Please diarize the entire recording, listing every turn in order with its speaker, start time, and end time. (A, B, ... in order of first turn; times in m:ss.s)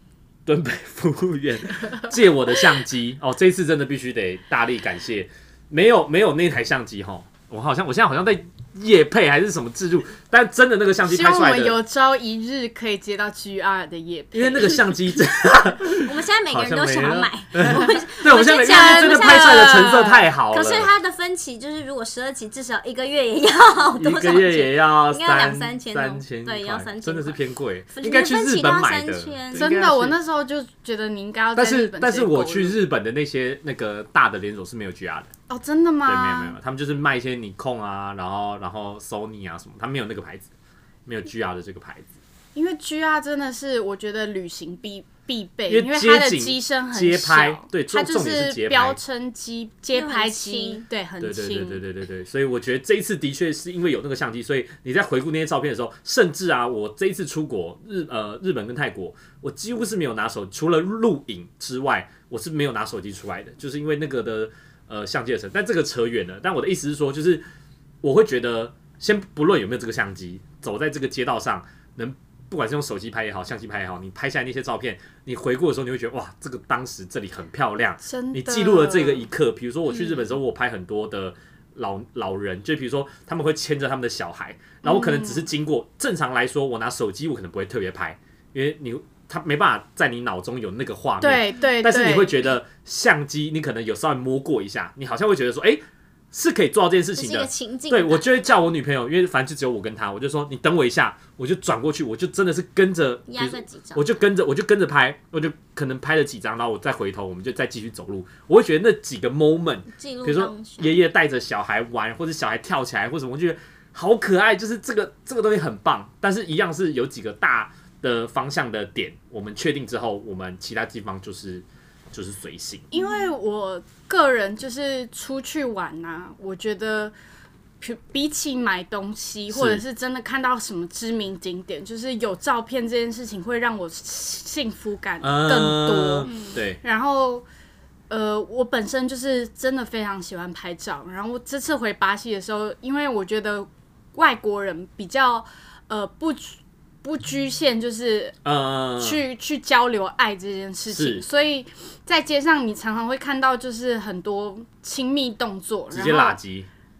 0:00.5-0:11.8 A
0:11.1-0:15.0 B
0:14.3-0:20.9 A
0:16.0-0:29.7 C
0:18.6-0:20.2 B
0:24.0-0:30.2 A
0:29.6-0:32.8 B
0:31.6-0:35.3 A
0:35.5-0:36.6 B
0:36.1-0:40.4 A
0:41.1-0:42.1 A
0:42.6-0:51.8 B
0:45.7-0:49.0 A
0:49.9-0:50.9 C
0:51.2-1:07.4 A
1:08.0-2:02.9 A
1:18.0-1:19.3 B
1:19.9-1:20.3 C
1:24.8-1:25.5 B
1:31.2-1:32.4 B
1:37.2-1:38.5 C
1:43.3-1:44.2 C
1:49.9-1:51.0 C
2:02.9-2:07.1 B
2:07.8-2:17.5 B
2:09.5-2:09.8 A
2:15.2-2:16.8 A
2:16.2-2:16.6 C
2:18.1-2:28.4 B
2:28.4-2:29.2 A
2:29.0-2:36.4 B
2:30.9-2:31.2 A
2:35.9-2:36.7 A